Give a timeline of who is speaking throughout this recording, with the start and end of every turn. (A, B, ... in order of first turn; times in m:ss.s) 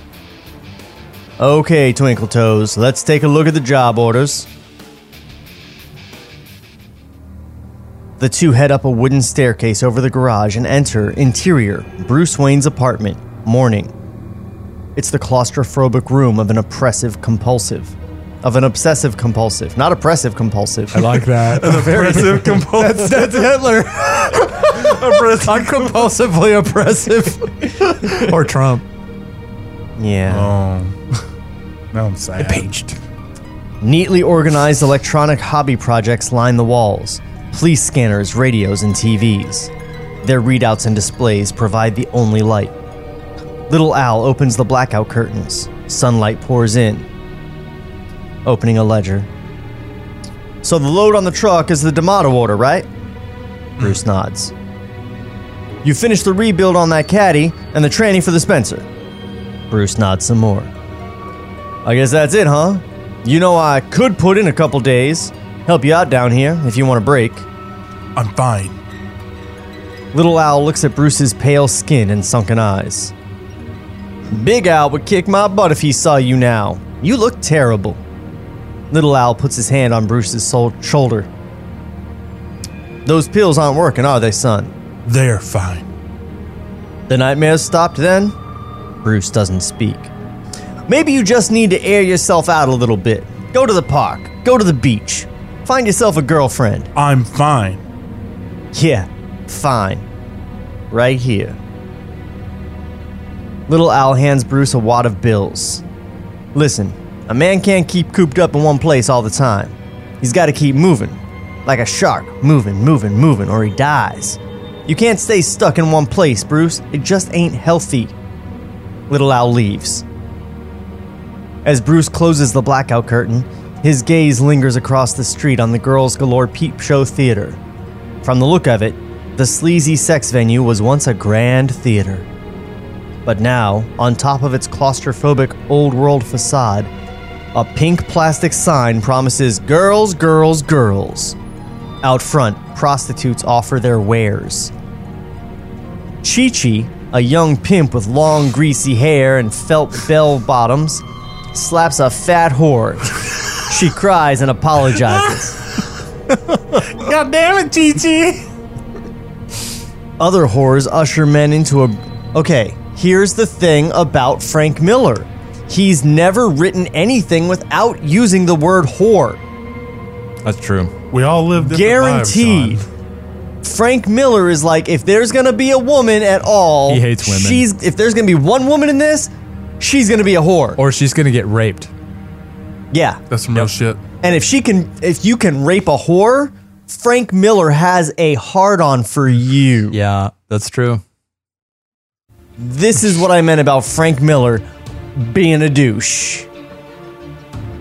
0:01.4-0:04.5 A
0:08.2-0:13.9 A
0:14.9-0:21.1 A
0:20.9-0:28.8 B
0:21.5-0:23.6 C
0:24.2-0:26.1 C
0:30.0-0:30.5 A
0:30.3-0:31.0 C
0:31.9-0:32.7 C
0:32.4-0:33.0 B
0:33.8-0:39.7 A
0:40.2-0:42.7 A
0:43.7-0:47.1 A
0:48.4-0:49.3 A
0:50.6-0:52.9 A
0:53.8-0:54.5 A
0:55.8-0:58.9 A
0:59.7-1:00.7 A
1:01.8-1:07.4 A
1:08.2-1:08.8 C
1:10.1-1:13.1 A
1:14.3-1:18.0 A
1:18.9-1:21.3 A
1:23.0-1:24.7 A
1:25.0-1:25.9 C
1:27.1-1:28.3 A
1:29.0-1:30.1 A
1:30.9-1:36.9 A
1:37.0-1:37.8 C
1:38.7-1:40.0 A
1:40.9-1:41.6 A
1:43.7-1:45.8 A
1:46.5-1:58.1 A
1:59.1-2:00.0 A
2:01.6-2:07.6 A
2:08.2-2:12.3 A
2:13.2-2:16.9 A
2:17.5-2:21.4 A
2:22.0-2:24.7 A
2:26.2-2:35.6 A
2:36.7-2:38.4 C
2:40.2-2:49.4 A
2:50.4-2:50.9 B
2:51.1-2:52.8 C
2:51.6-2:52.8 A
2:53.6-3:00.8 A
2:56.9-2:57.6 B
3:00.8-3:01.9 B
3:02.9-3:03.2 A
3:03.3-3:04.0 C
3:04.2-3:10.0 A
3:09.9-3:11.0 B
3:12.6-3:16.5 A